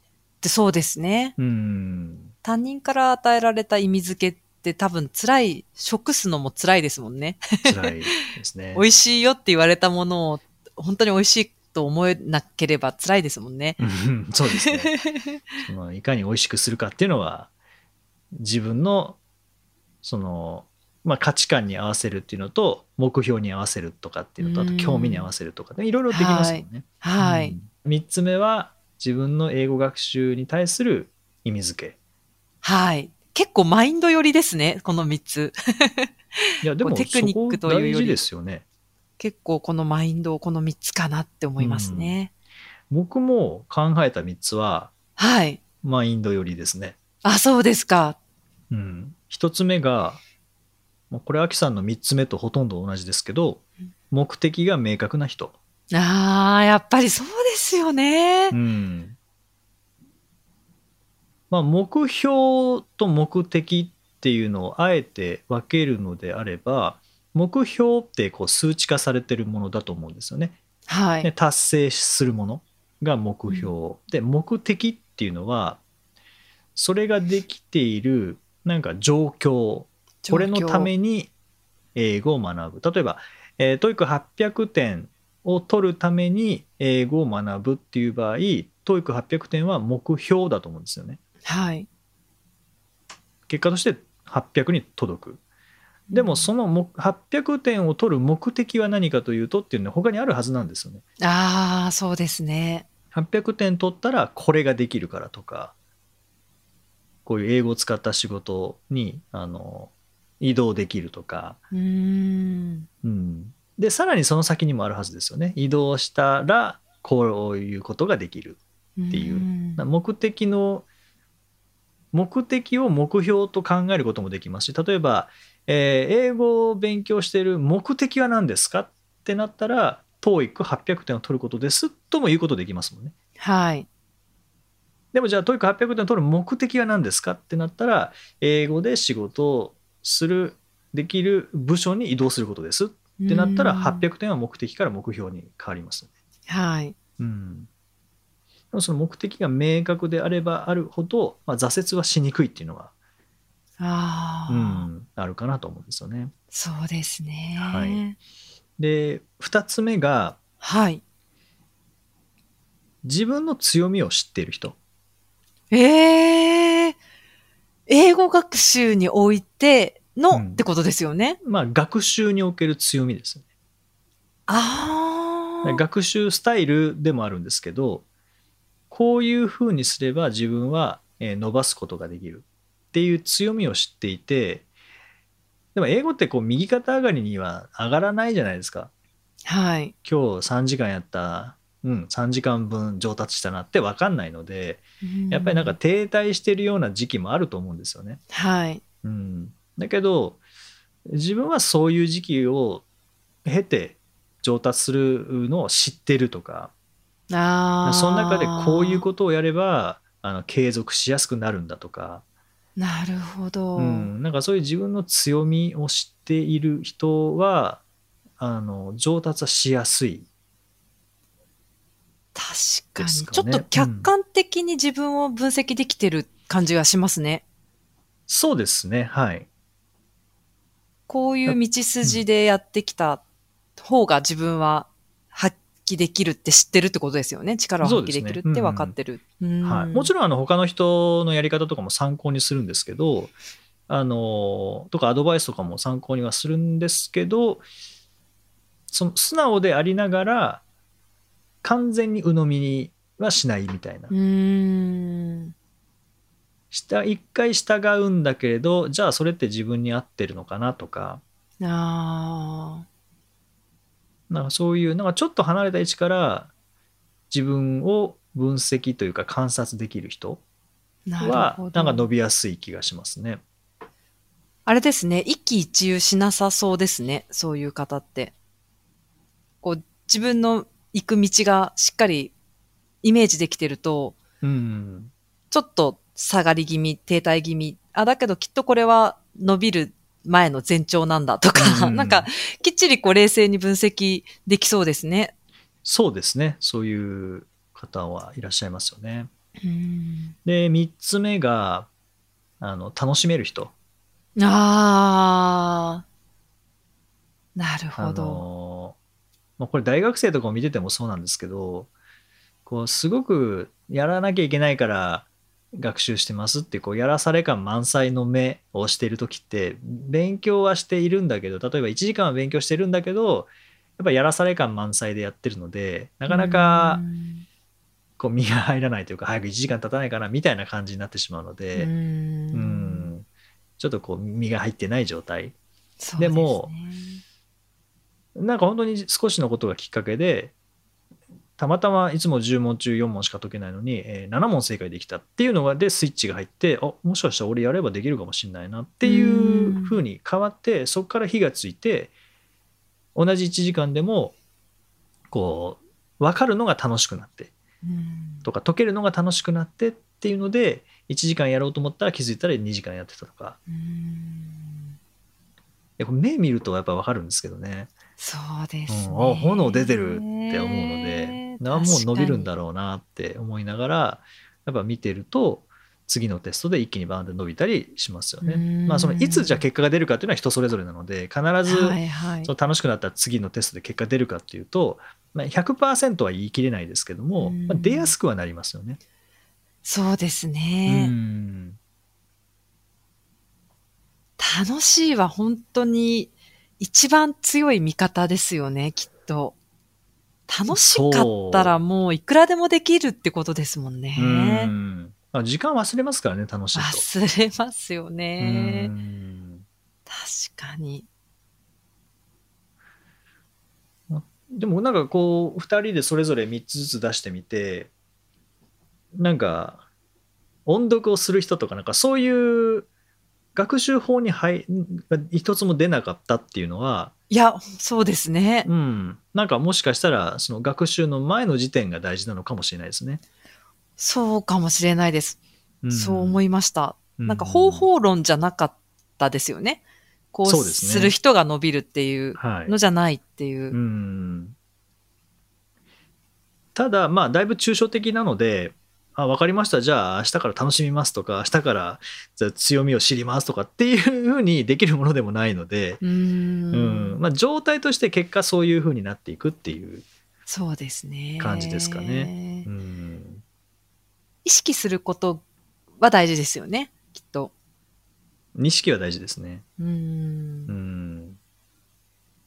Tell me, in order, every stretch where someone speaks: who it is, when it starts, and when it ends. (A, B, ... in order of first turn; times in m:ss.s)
0:00.4-0:01.3 A
0:01.4-0:02.3 B
0:02.4-0:07.9 A
0:07.6-0:08.8 B
0:08.7-0:13.8 A
0:13.8-0:14.9 B
0:14.5-0:15.4 A
0:15.6-0:17.5 B
0:18.3-0:19.2 B
0:20.0-0:32.0 B
0:24.4-0:25.3 A
0:26.1-0:27.6 A
0:32.6-0:38.2 A
0:36.6-0:38.6 B
0:39.2-0:42.3 A
0:41.6-0:42.2 B
0:42.9-0:44.9 B
0:45.2-0:45.6 A
0:45.8-0:47.0 B
0:47.2-0:48.2 A
0:48.7-0:50.2 B
0:51.1-0:55.6 B
0:55.9-0:58.6 A
0:58.5-0:59.2 B
1:01.5-1:10.6 B
1:10.9-1:11.3 A
1:11.2-1:15.8 B
1:16.8-1:21.3 B
1:20.2-1:20.9 A
1:21.9-1:31.2 B
1:31.4-1:31.9 A
1:33.5-1:35.4 B
1:36.1-1:36.5 A
1:36.1-1:41.0 B
1:41.2-1:42.8 A
1:43.1-1:45.7 B
1:47.2-1:51.6 B
1:51.7-1:52.9 A
1:53.0-1:58.6 B
1:59.0-1:59.8 A
1:59.1-2:00.8 B
2:02.1-2:13.1 B
2:13.4-2:13.9 A
2:15.1-2:26.1 B
2:23.2-2:24.1 A
2:26.5-2:26.9 A
2:27.2-2:27.7 B
2:28.7-2:32.9 B
2:33.8-2:34.9 A
2:34.5-2:36.3 B
2:36.5-2:38.2 A
2:37.6-2:38.0 B
2:38.8-2:40.4 B
2:40.6-2:41.0 A
2:43.0-2:44.8 B
2:45.7-2:47.0 A
2:47.9-2:51.4 A
2:50.3-2:50.6 B
2:51.4-2:53.4 B
2:54.5-2:55.8 A
2:55.6-2:58.0 B
2:58.9-3:04.6 B
3:05.7-3:08.9 B
3:09.4-3:09.9 A
3:10.0-3:18.2 B
3:15.0-3:15.8 A
3:18.3-3:18.8 A
3:19.0-3:20.4 B
3:21.1-3:22.8 B
3:23.4-3:26.7 B
3:27.3-3:29.1 A
3:27.8-3:32.2 B
3:32.8-3:34.1 A
3:33.8-3:37.8 B
3:38.4-3:40.2 B
3:42.3-3:47.4 A
3:43.0-3:44.1 B
3:48.3-3:49.5 B
3:51.1-3:53.2 A
3:51.4-3:52.2 B
3:53.8-4:00.1 A
3:57.8-3:58.9 B
3:59.6-4:03.3 B
4:03.9-4:07.6 B
4:08.9-4:10.6 B
4:11.6-4:14.1 B
4:14.1-4:15.5 A
4:16.7-4:21.2 B
4:21.6-4:22.8 A
4:24.3-4:26.5 B
4:27.3-4:30.4 B
4:31.1-4:32.1 A
4:31.2-4:33.4 B
4:34.6-4:38.3 A
4:39.6-4:42.3 A
4:43.0-4:44.2 A
4:44.4-4:45.1 B
4:45.5-4:55.3 A
4:51.6-4:52.3 B
4:55.8-4:59.3 B
4:59.6-5:00.4 A
5:00.4-5:01.9 B
5:02.6-5:03.7 B
5:04.4-5:06.0 A
5:07.6-5:08.4 A
5:08.0-5:09.0 B
5:09.6-5:11.9 B
5:12.6-5:27.0 B
5:26.3-5:27.4 A
5:28.2-5:31.9 B
5:31.7-5:33.1 A
5:32.5-5:33.2 B
5:33.8-5:35.5 B
5:36.0-5:37.2 A
5:36.2-5:36.7 B
5:38.3-5:40.5 B
5:41.6-5:52.1 B
5:49.0-5:50.0 A
5:53.1-5:54.3 B
5:55.3-5:57.5 B
5:57.8-5:58.5 A
5:58.4-6:03.6 B
6:03.7-6:04.9 A
6:06.0-6:07.9 B
6:08.2-6:12.5 A
6:08.9-6:29.0 B
6:18.4-6:19.6 A
6:21.6-6:22.5 A
6:27.4-6:28.1 A
6:29.8-6:31.1 A
6:30.9-6:31.8 B
6:34.4-6:39.5 A
6:40.5-6:44.7 A
6:40.7-6:41.8 B
6:44.2-6:47.0 B
6:46.7-6:48.9 A
6:48.4-6:49.6 B
6:50.1-6:51.0 A
6:54.1-6:57.9 B
6:59.1-6:59.8 B
7:00.6-7:02.9 B
7:03.5-7:07.1 B
7:07.3-7:08.7 A
7:08.6-7:13.2 B
7:14.0-7:15.4 A
7:15.8-7:16.4 B
7:15.9-7:19.8 A
7:17.2-7:17.9 B
7:20.3-7:23.8 A
7:20.4-7:21.1 B
7:22.4-7:22.7 B
7:23.7-7:24.5 B
7:26.7-7:36.0 B
7:36.0-7:37.2 A
7:36.7-7:40.0 B
7:40.5-7:42.7 A
7:41.4-7:43.4 B
7:44.4-7:45.4 A
7:46.0-7:47.5 A
7:48.5-7:49.6 B
7:49.8-7:50.7 A
7:50.7-7:51.4 B